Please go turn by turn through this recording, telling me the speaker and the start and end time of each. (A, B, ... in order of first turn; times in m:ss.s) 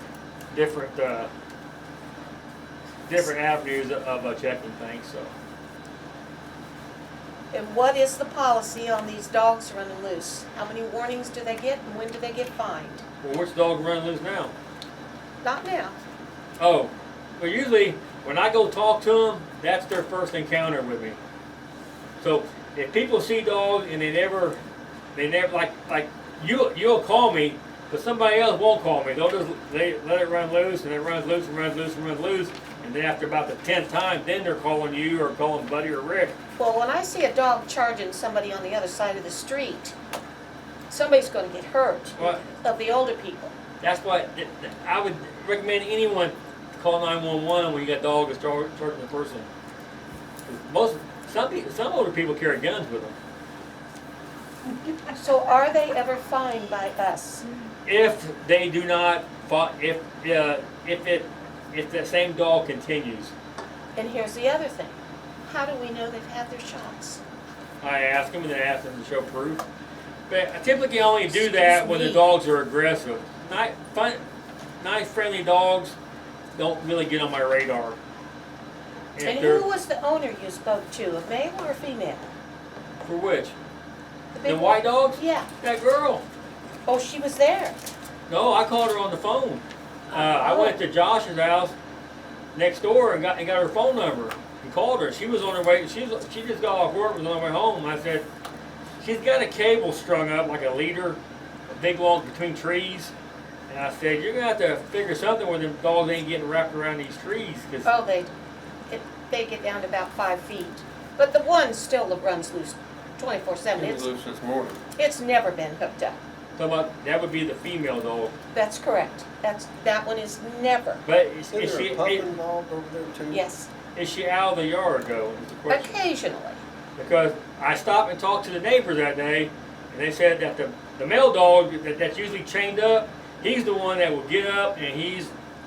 0:00.5-0:01.3 A
0:03.1-0:05.3 A
0:07.5-0:13.0 B
0:13.2-0:14.5 A
0:15.4-0:16.0 B
0:16.6-0:21.2 A
0:22.2-0:24.6 A
0:25.2-0:36.4 A
0:36.6-0:39.9 B
0:40.9-0:43.5 B
0:42.2-0:42.4 A
0:43.8-0:49.5 A
0:50.5-0:53.1 A
0:55.2-0:57.4 B
0:57.9-1:03.3 A
1:04.0-1:07.2 B
1:07.8-1:09.6 A
1:10.3-1:14.2 A
1:11.3-1:12.3 B
1:14.8-1:16.0 A
1:16.6-1:18.0 A
1:19.2-1:19.6 A
1:19.2-1:22.3 B
1:23.0-1:23.5 A
1:24.3-1:25.5 B
1:24.4-1:26.2 A
1:26.9-1:27.8 B
1:28.3-1:31.7 A
1:30.1-1:30.8 B
1:32.5-1:38.3 A
1:39.0-1:43.1 A
1:43.7-1:47.9 A
1:47.8-1:48.3 B
1:48.9-1:54.1 B
1:53.7-1:54.8 C
1:55.0-1:56.2 B
1:56.6-1:58.3 A
1:58.5-2:01.0 B
2:01.0-2:02.3 A
2:01.5-2:03.4 C
2:03.3-2:03.7 B
2:03.9-2:06.0 A
2:05.7-2:06.6 B
2:07.0-2:15.3 A